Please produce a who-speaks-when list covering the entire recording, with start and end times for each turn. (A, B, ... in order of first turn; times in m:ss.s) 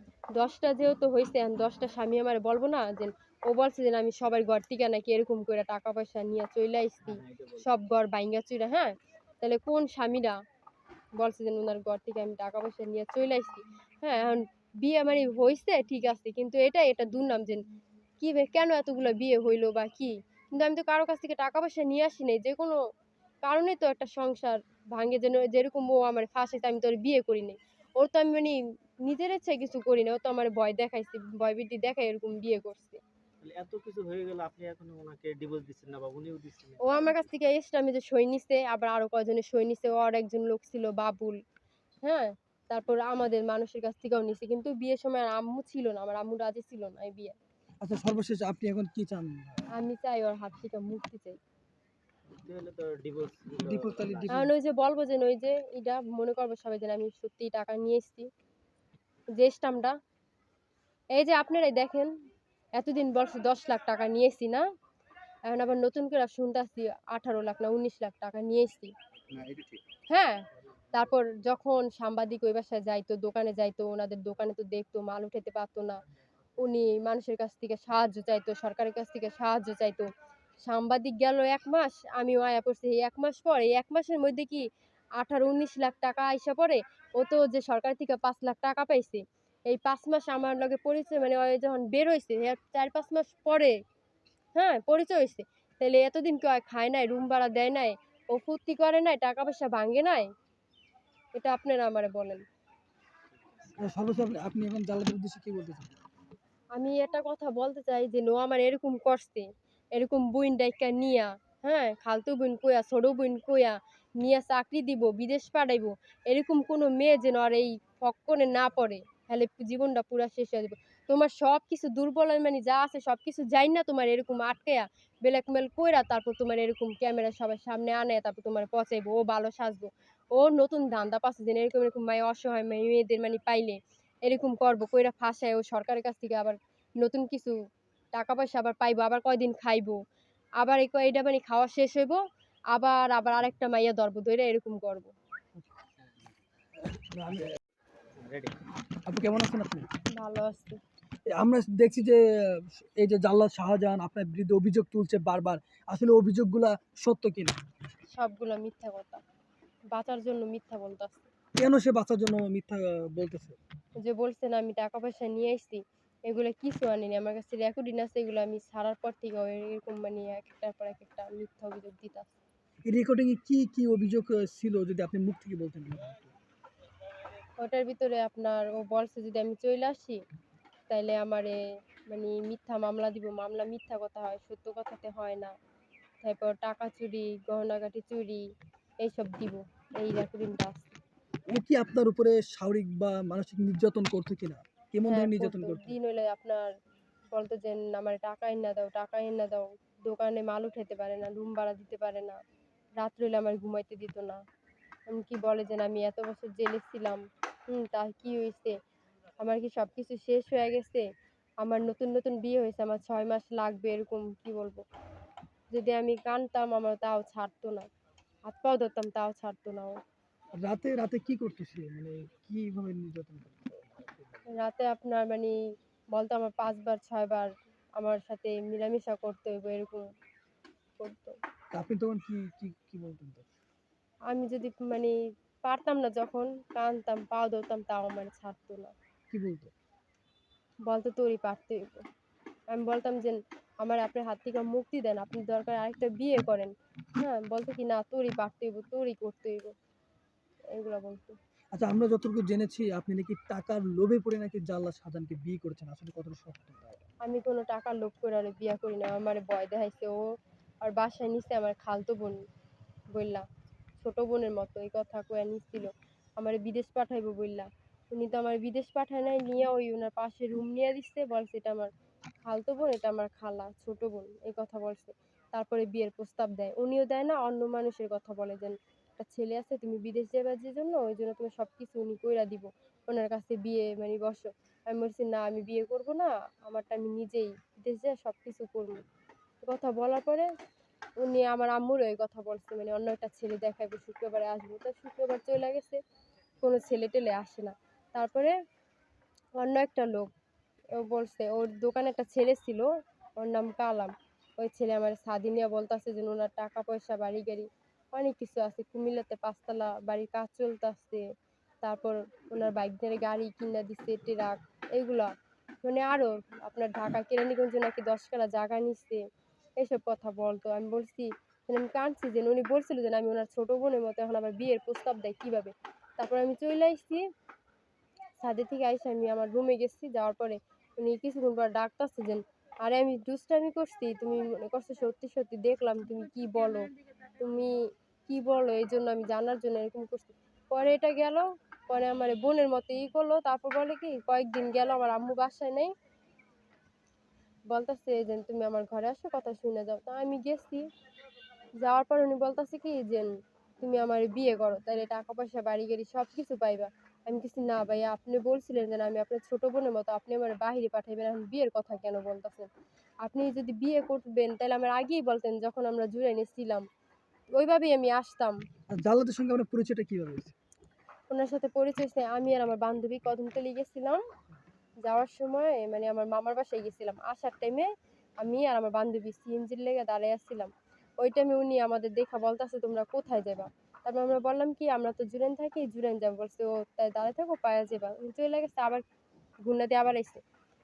0:00.4-0:10.4 A
0:07.1-0:07.7 B
0:11.2-0:17.6 A
0:18.2-0:22.8 A
0:23.4-0:33.0 A
0:33.4-0:37.2 B
0:36.8-0:41.4 A
0:42.0-0:47.4 A
0:47.8-0:49.7 C
0:49.7-0:51.4 A
0:52.4-0:54.5 B
0:53.7-0:54.5 C
0:54.3-0:58.3 A
0:59.3-1:00.0 A
1:01.1-1:02.1 A
1:02.8-1:04.7 A
1:05.5-1:08.9 A
1:09.2-1:09.6 B
1:10.1-1:16.0 A
1:16.6-1:20.1 A
1:20.6-1:33.8 A
1:34.6-1:40.3 A
1:41.4-1:42.4 A
1:43.3-1:43.8 B
1:43.8-1:46.0 C
1:46.7-2:17.6 A
2:18.1-2:20.0 A
2:20.6-2:22.2 A
2:22.7-2:25.1 A
2:26.8-2:27.6 C
2:28.2-2:28.6 B
2:29.1-2:29.9 C
2:30.2-2:30.8 A
2:31.3-2:37.6 C
2:38.1-2:39.2 A
2:39.9-2:41.3 A
2:41.6-2:43.6 C
2:44.0-2:52.3 A
2:52.9-2:56.4 C
2:57.6-3:00.2 A
3:00.9-3:05.5 A
3:06.2-3:08.4 A
3:09.0-3:11.0 A
3:11.5-3:16.0 C
3:15.1-3:16.7 A
3:17.3-3:22.4 A
3:23.0-3:24.4 A
3:25.1-3:28.8 A
3:29.4-3:31.1 A
3:31.6-3:34.8 A
3:35.7-3:37.9 A
3:38.5-3:40.0 A
3:40.6-3:44.5 C
3:44.5-3:45.6 A
3:46.1-3:50.1 A
3:51.0-3:51.4 A
3:51.7-3:53.5 C
3:54.3-3:58.9 A
3:59.3-3:59.7 C
4:00.9-4:02.0 A
4:02.7-4:09.8 A
4:10.7-4:11.4 A
4:11.7-4:17.1 C
4:17.2-4:20.3 A
4:20.8-4:22.4 A
4:23.1-4:23.5 A
4:24.0-4:31.9 A
4:32.4-4:49.0 A
4:49.6-4:50.5 A
4:51.2-4:56.0 A
4:56.6-4:58.6 A
4:59.6-5:00.3 A
5:01.0-5:11.2 A
5:11.8-5:15.3 A
5:15.8-5:19.2 A
5:19.8-5:27.2 A
5:28.4-5:45.9 A
5:47.7-5:50.9 A
5:51.8-6:02.7 A
6:03.2-6:06.9 A
6:07.6-6:08.6 A
6:09.0-6:10.6 C
6:11.3-6:14.2 A
6:15.0-6:29.0 A
6:29.6-6:30.4 A